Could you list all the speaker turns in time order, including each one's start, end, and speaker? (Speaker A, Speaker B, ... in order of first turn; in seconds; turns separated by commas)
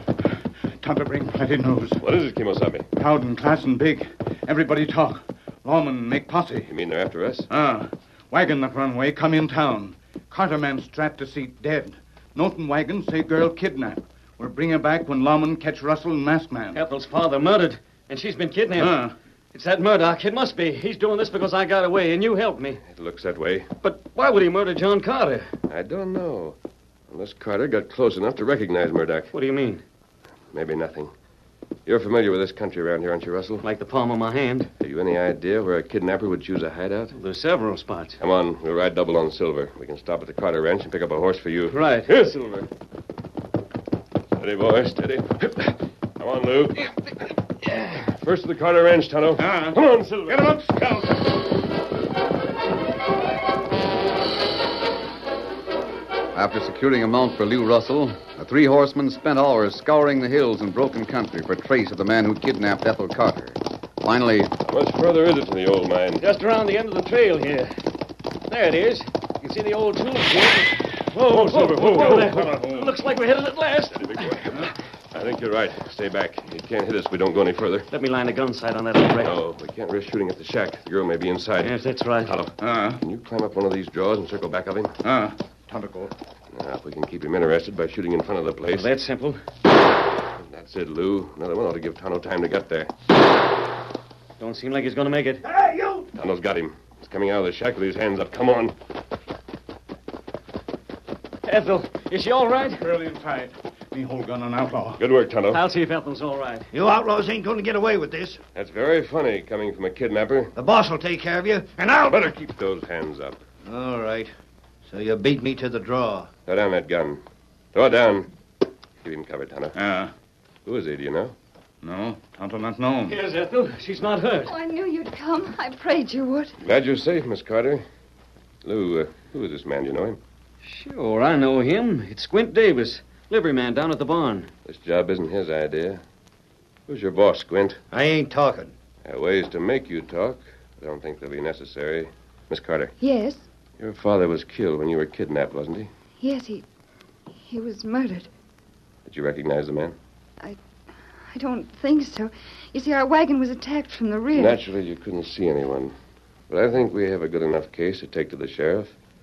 Speaker A: 0.2-2.0, Speaker B: 2.0-2.9, Speaker A: 3.0-6.7, Speaker B: 6.7-7.5, Speaker A: 7.5-16.8, Speaker C: 16.7-22.8, Speaker A: 18.8-19.1, Speaker B: 22.8-23.7, Speaker C: 23.8-25.5, Speaker B: 25.7-26.6, Speaker B: 27.1-29.3, Speaker C: 29.3-29.8, Speaker B: 30.5-31.1, Speaker B: 31.9-33.6, Speaker C: 33.6-34.7, Speaker B: 34.8-37.1, Speaker C: 37.1-38.2, Speaker B: 38.2-42.7, Speaker C: 41.7-42.1, Speaker B: 44.4-47.1, Speaker B: 47.6-50.6, Speaker A: 49.4-51.2, Speaker D: 56.3-64.5, Speaker B: 64.6-66.2, Speaker C: 66.2-67.8, Speaker C: 68.5-74.4, Speaker B: 71.1-72.5, Speaker A: 71.4-72.9, Speaker B: 73.9-77.9, Speaker C: 77.9-79.4, Speaker B: 79.2-85.0, Speaker C: 81.6-82.3, Speaker A: 82.6-83.0, Speaker A: 85.0-86.1, Speaker B: 86.5-88.9, Speaker C: 88.7-89.4, Speaker B: 90.4-92.9, Speaker C: 94.4-95.5, Speaker A: 95.5-96.0, Speaker B: 96.1-98.8, Speaker C: 101.5-102.8, Speaker A: 102.8-105.0, Speaker B: 105.0-105.6, Speaker C: 105.5-106.7, Speaker E: 106.7-108.4, Speaker B: 108.5-110.5, Speaker E: 110.6-112.5, Speaker B: 112.3-113.4, Speaker E: 113.7-114.3, Speaker E: 114.9-116.3, Speaker B: 116.5-117.2, Speaker B: 117.7-118.3, Speaker B: 119.0-119.8, Speaker A: 119.7-120.1, Speaker B: 120.7-121.3, Speaker A: 121.8-123.2, Speaker C: 123.1-124.5, Speaker F: 124.5-126.5, Speaker B: 126.6-127.8, Speaker B: 128.6-130.2, Speaker C: 130.6-134.5, Speaker B: 134.7-136.0, Speaker B: 136.9-137.8, Speaker E: 137.9-138.7, Speaker B: 139.1-142.9, Speaker F: 143.0-143.4, Speaker B: 143.8-145.9, Speaker F: 146.2-146.6, Speaker F: 147.3-148.3, Speaker B: 149.1-150.0, Speaker F: 151.3-154.6, Speaker B: 154.3-155.9, Speaker B: 156.5-158.9